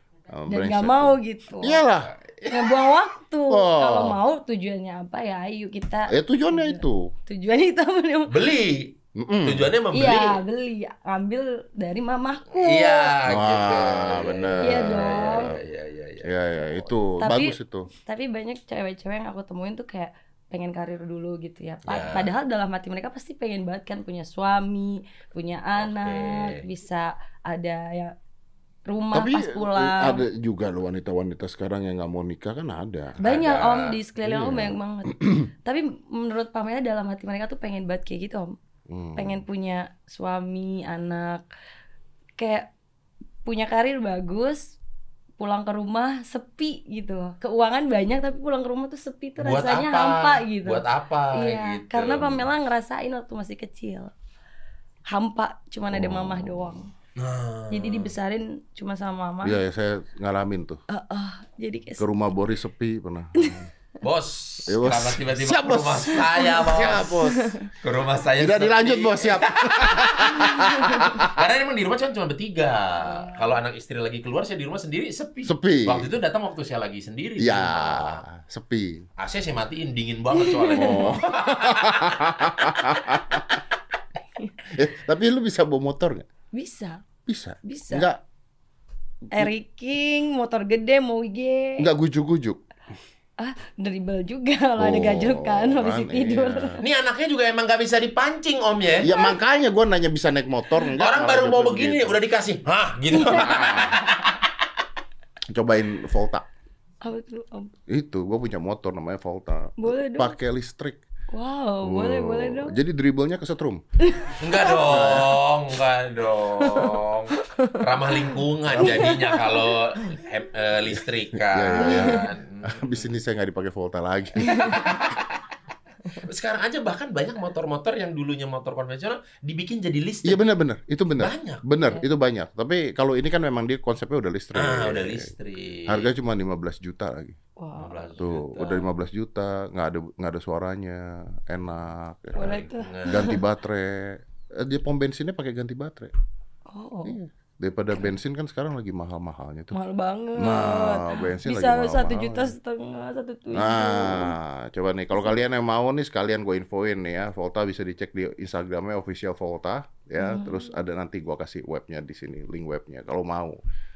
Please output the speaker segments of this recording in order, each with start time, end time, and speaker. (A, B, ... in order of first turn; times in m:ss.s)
0:00.3-0:02.1 A
0:00.5-0:01.8 B
0:02.0-0:02.8 C
0:02.5-0:08.4 B
0:03.5-0:04.2 A
0:06.1-0:07.1 A
0:08.3-0:10.4 C
0:09.2-0:09.7 A
0:09.9-0:13.1 B
0:12.5-0:16.4 C
0:13.2-0:15.6 A
0:14.6-0:15.5 B
0:16.2-0:17.9 A
0:17.2-0:28.1 B
0:21.9-0:22.3 C
0:25.8-0:26.6 C
0:28.9-0:30.3 B
0:29.1-0:33.2 A
0:33.2-0:38.6 B
0:33.2-0:34.0 C
0:34.2-0:35.4 A
0:38.9-0:39.4 A
0:39.2-0:41.4 B
0:42.4-0:42.7 B
0:43.4-0:44.8 B
0:45.4-0:54.1 B
0:49.4-0:52.5 C
0:55.1-0:56.9 B
0:55.9-0:56.8 A
0:57.2-0:58.1 C
0:57.7-0:59.6 B
0:59.4-1:00.8 A
1:00.9-1:02.1 B
1:02.0-1:03.7 A
1:03.4-1:03.6 B
1:04.0-1:07.2 C
1:04.7-1:07.6 A
1:07.3-1:07.7 B
1:07.7-1:10.6 C
1:08.4-1:11.4 A
1:10.4-1:11.2 B
1:11.1-1:18.2 C
1:13.0-1:13.6 B
1:15.4-1:16.1 A
1:17.4-1:19.1 A
1:19.2-1:23.4 C
1:20.3-1:21.2 B
1:20.7-1:23.6 A
1:24.6-1:26.3 A
1:26.5-1:27.0 B
1:27.3-1:28.2 A
1:27.6-1:28.1 B
1:29.3-1:31.9 B
1:31.8-1:32.6 A
1:33.4-1:36.8 B
1:34.8-1:36.8 A
1:36.8-1:39.1 C
1:39.0-1:42.2 A
1:41.0-1:44.5 C
1:43.1-1:44.3 B
1:45.5-1:46.4 A
1:47.0-1:47.7 B
1:47.9-1:51.0 A
1:49.8-1:50.4 B
1:51.3-1:52.8 B
1:51.8-1:53.8 A
1:54.0-1:55.2 B
1:54.4-2:03.1 C
1:54.8-1:55.4 A
1:56.6-1:59.7 B
1:58.6-1:59.1 A
2:01.3-2:04.9 A
2:01.8-2:02.3 B
2:04.4-2:04.8 B
2:04.5-2:05.4 C
2:06.1-2:10.4 C
2:10.2-2:15.3 A
2:11.2-2:11.6 C
2:14.5-2:16.1 C
2:15.9-2:17.4 A
2:17.6-2:18.1 B
2:17.8-2:18.9 C
2:18.2-2:26.1 A
2:22.4-2:23.4 B
2:22.4-2:23.3 C
2:26.7-2:27.2 B
2:27.0-2:29.8 A
2:29.7-2:34.3 B
2:30.4-2:32.6 A
2:33.5-2:43.6 A
2:40.2-2:40.8 B